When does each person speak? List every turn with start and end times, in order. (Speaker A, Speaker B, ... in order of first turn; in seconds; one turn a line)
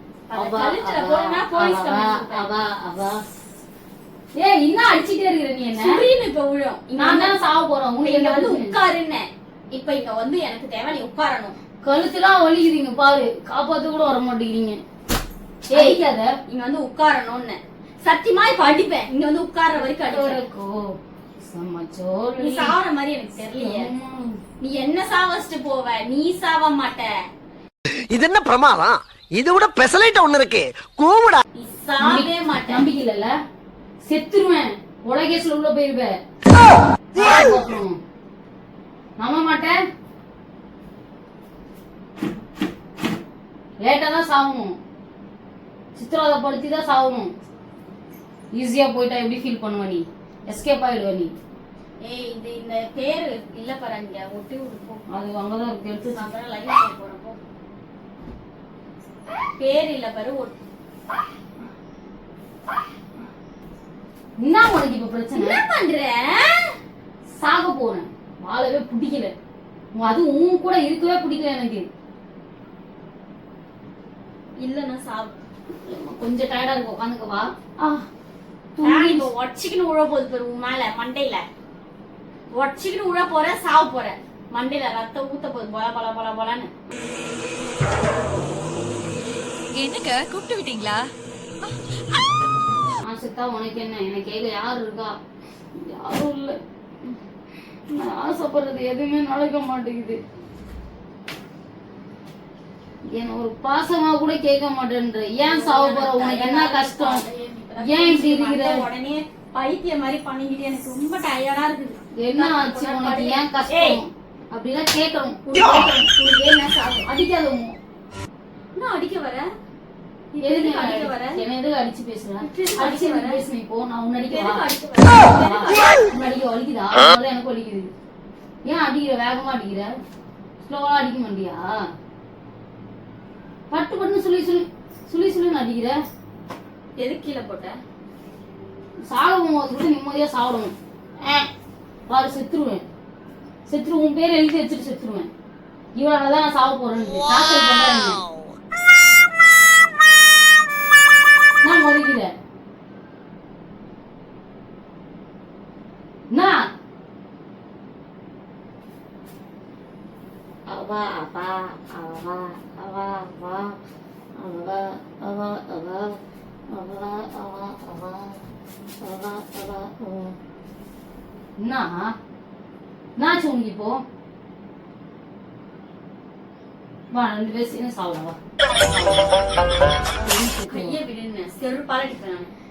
Speaker A: 0.3-2.5
Speaker B: 0.3-3.2
Speaker B: 4.4-6.0
Speaker A: 5.8-7.3
Speaker B: 7.0-8.8
Speaker A: 8.0-11.6
Speaker B: 11.8-14.8
Speaker B: 15.7-16.3
Speaker A: 15.7-20.4
Speaker B: 19.8-20.9
Speaker B: 21.4-22.8
Speaker A: 22.4-23.9
Speaker B: 23.6-24.4
Speaker A: 24.6-27.1
Speaker C: 28.1-31.4
Speaker A: 31.6-32.8
Speaker B: 32.0-33.4
Speaker B: 34.0-36.2
Speaker B: 37.1-38.0
Speaker B: 39.2-39.8
Speaker B: 43.8-44.7
Speaker B: 46.0-47.3
Speaker B: 48.5-51.3
Speaker A: 52.0-55.0
Speaker B: 55.1-56.3
Speaker A: 56.1-57.4
Speaker A: 59.6-60.5
Speaker B: 64.4-65.6
Speaker A: 65.3-66.7
Speaker B: 67.3-69.3
Speaker B: 70.0-71.9
Speaker A: 74.6-75.3
Speaker B: 75.8-78.1
Speaker B: 78.8-79.3
Speaker A: 78.8-81.4
Speaker A: 82.5-86.7
Speaker A: 89.7-91.1
Speaker B: 93.0-95.2
Speaker B: 95.8-97.2
Speaker B: 97.9-100.2
Speaker B: 103.2-107.2
Speaker A: 105.5-114.0
Speaker B: 107.8-108.8
Speaker B: 112.2-116.1
Speaker A: 115.5-117.1
Speaker B: 117.0-117.8
Speaker A: 118.8-119.5
Speaker A: 120.3-121.4
Speaker B: 120.4-124.6
Speaker A: 122.4-123.4
Speaker A: 124.3-126.0
Speaker B: 125.4-127.9
Speaker B: 128.7-129.9
Speaker B: 130.6-131.8
Speaker B: 133.7-136.0
Speaker A: 137.0-137.8
Speaker B: 139.1-141.5
Speaker B: 142.1-142.8
Speaker B: 143.7-145.3
Speaker B: 146.0-148.2
Speaker B: 151.6-152.3
Speaker B: 156.3-156.7
Speaker B: 160.7-163.8
Speaker B: 164.4-166.2
Speaker B: 166.7-168.4
Speaker B: 169.0-170.4
Speaker B: 171.6-172.1
Speaker B: 173.2-174.0
Speaker B: 177.1-179.4
Speaker B: 180.2-181.0
Speaker A: 180.7-182.5